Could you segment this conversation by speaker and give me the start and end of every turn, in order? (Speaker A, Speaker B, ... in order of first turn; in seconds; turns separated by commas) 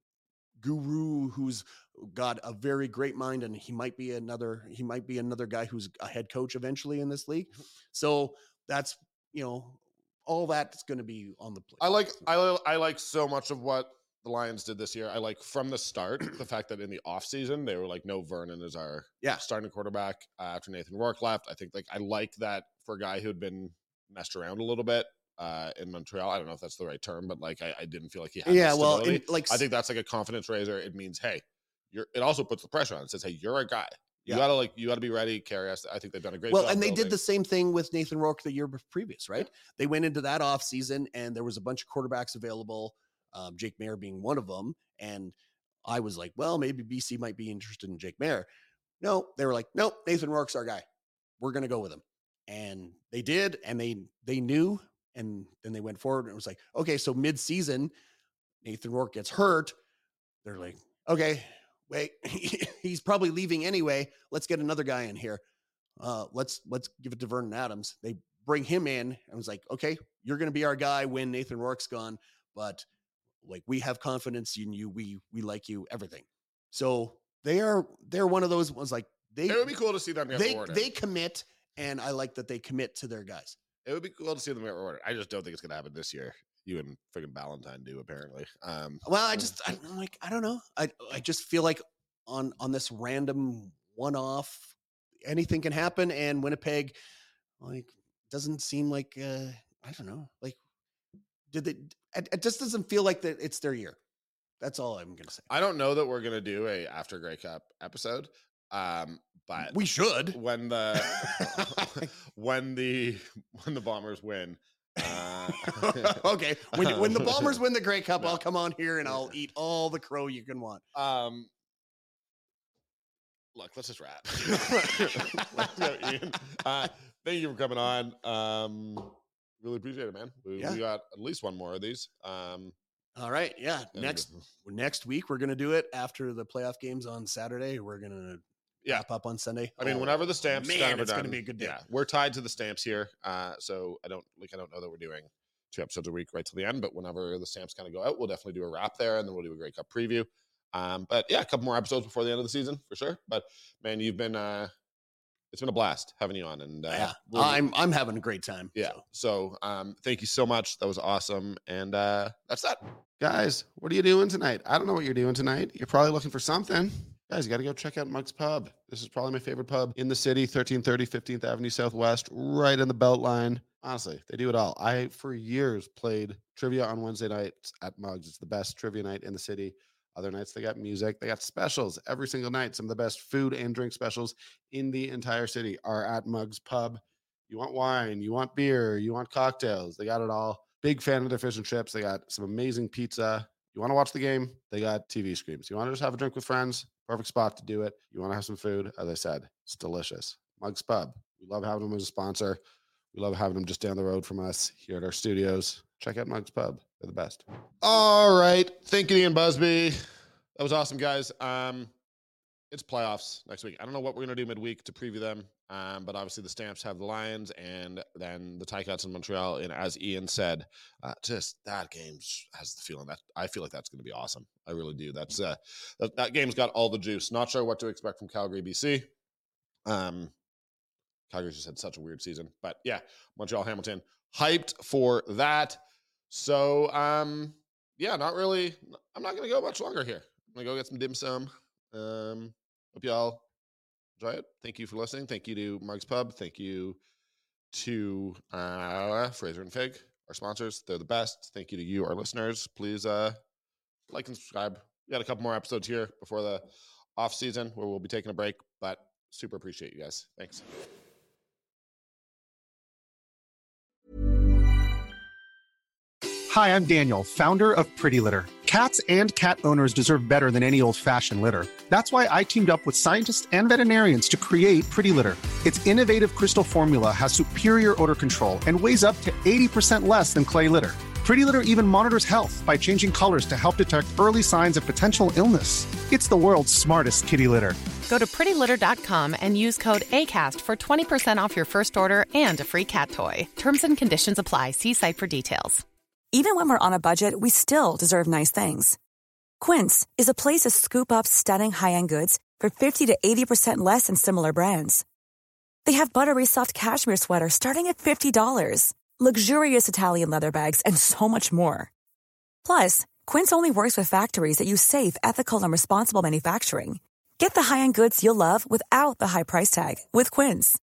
Speaker A: 0.6-12.2, Speaker B: 11.8-37.2, Speaker A: 28.4-29.6, Speaker A: 36.5-48.5, Speaker A: 49.0-50.8, Speaker A: 51.4-57.9, Speaker A: 58.6-59.7, Speaker A: 60.4-65.4, Speaker A: 66.0-72.8, Speaker A: 73.4-79.7, Speaker B: 79.5-80.9, Speaker A: 80.3-83.6, Speaker B: 83.8-89.0, Speaker A: 89.0-94.7, Speaker A: 95.2-97.0, Speaker A: 97.6-100.6, Speaker A: 101.5-104.0, Speaker A: 104.6-105.5, Speaker B: 105.5-109.7, Speaker A: 109.7-110.4, Speaker B: 110.3-116.2, Speaker A: 110.9-112.1, Speaker A: 115.0-120.8, Speaker B: 116.7-117.6, Speaker B: 118.2-118.4, Speaker B: 119.0-119.3, Speaker B: 120.9-121.5, Speaker B: 123.5-132.7, Speaker A: 133.2-141.8, Speaker B: 133.9-134.3, Speaker B: 139.8-154.7, Speaker B: 155.5-157.6, Speaker A: 156.9-159.0, Speaker B: 158.7-202.6, Speaker B: 203.1-210.0, Speaker B: 210.5-211.9, Speaker B: 212.7-229.1, Speaker B: 229.8-230.3, Speaker B: 231.3-243.4, Speaker B: 244.2-247.0, Speaker B: 247.7-253.4, Speaker B: 254.1-260.6, Speaker C: 266.5-287.8, Speaker D: 288.1-295.8, Speaker E: 296.3-299.0, Speaker E: 299.6-305.0, Speaker E: 305.8-311.9, Speaker E: 312.6-320.8